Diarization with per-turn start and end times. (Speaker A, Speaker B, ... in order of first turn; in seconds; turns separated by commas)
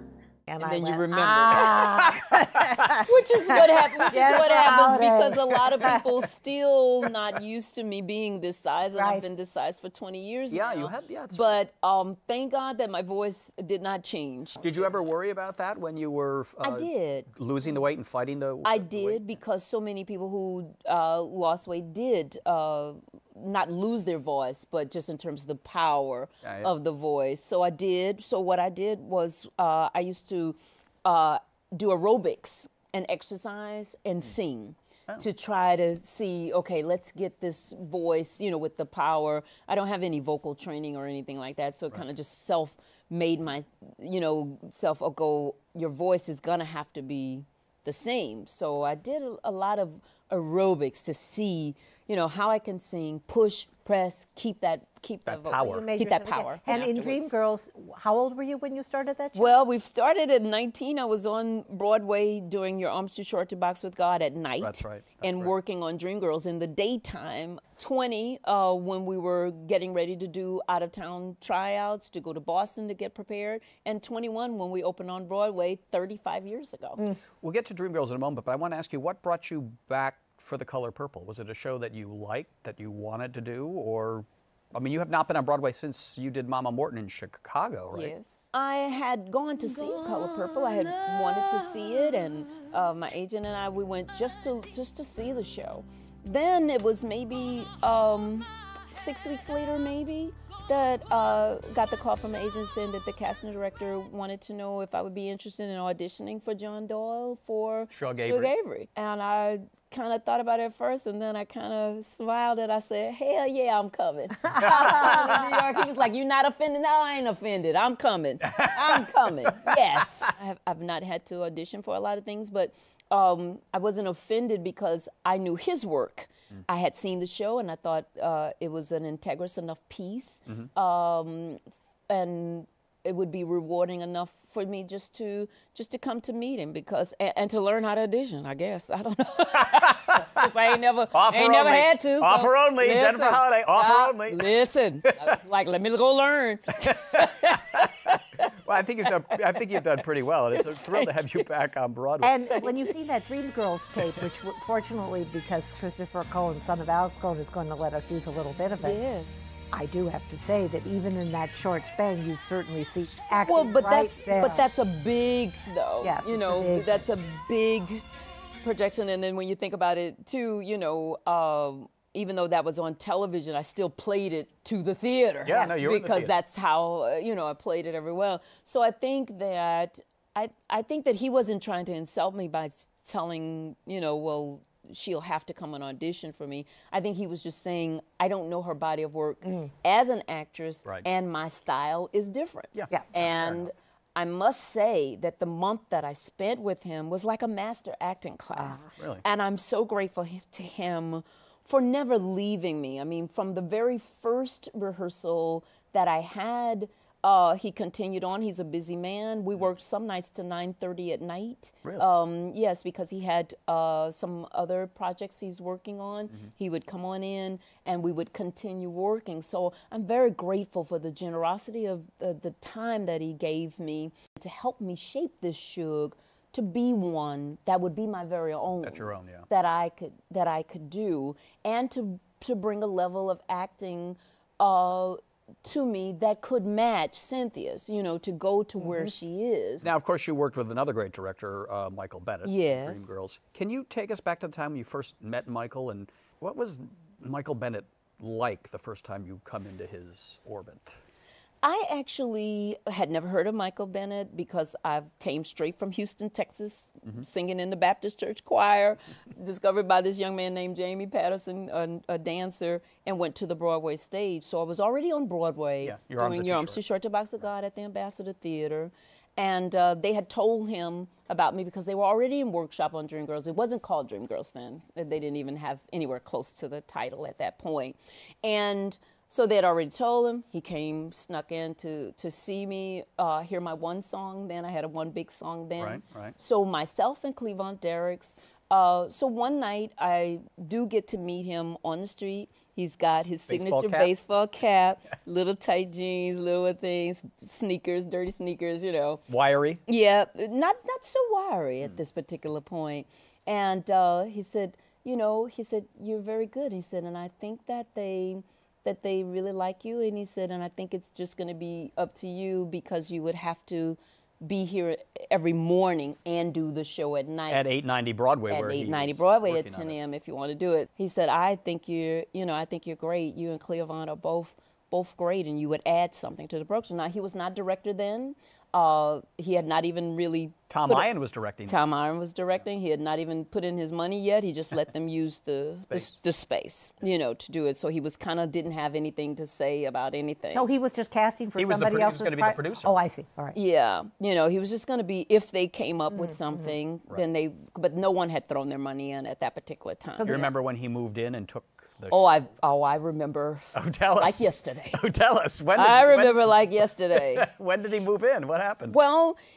Speaker A: 0.5-6.0, Speaker B: 0.6-2.1, Speaker C: 2.1-4.3, Speaker B: 3.0-14.6, Speaker A: 8.9-9.2, Speaker C: 10.5-11.5, Speaker C: 14.6-19.4, Speaker B: 16.6-17.3, Speaker B: 18.6-57.3, Speaker C: 26.4-26.7, Speaker C: 55.3-55.9, Speaker A: 55.6-59.6, Speaker B: 59.4-77.1, Speaker C: 64.6-65.5, Speaker C: 77.4-88.1, Speaker B: 87.9-148.1, Speaker C: 107.9-108.5, Speaker C: 114.6-115.2, Speaker C: 118.4-120.3, Speaker C: 139.6-140.5, Speaker C: 141.1-144.5, Speaker C: 145.0-145.4, Speaker C: 146.8-152.7, Speaker A: 152.2-159.0, Speaker B: 158.8-159.4, Speaker A: 159.7-164.7, Speaker B: 163.4-168.0, Speaker A: 166.0-167.0, Speaker B: 168.6-239.9, Speaker C: 175.4-176.3, Speaker C: 192.8-193.7, Speaker C: 199.0-199.2, Speaker C: 228.8-229.5, Speaker A: 238.8-239.1, Speaker C: 239.8-251.0, Speaker B: 242.4-243.1, Speaker B: 251.6-299.2, Speaker C: 265.8-266.8, Speaker C: 285.8-286.4, Speaker C: 293.5-294.1, Speaker C: 299.3-299.8, Speaker B: 299.9-317.6, Speaker C: 317.5-320.0, Speaker B: 318.5-331.1, Speaker C: 330.7-331.8, Speaker B: 331.7-340.7, Speaker A: 340.5-343.6, Speaker C: 341.6-343.0, Speaker B: 343.6-350.5, Speaker C: 350.2-352.2, Speaker B: 352.1-355.0, Speaker C: 353.7-359.0, Speaker B: 355.8-357.5, Speaker B: 358.9-359.4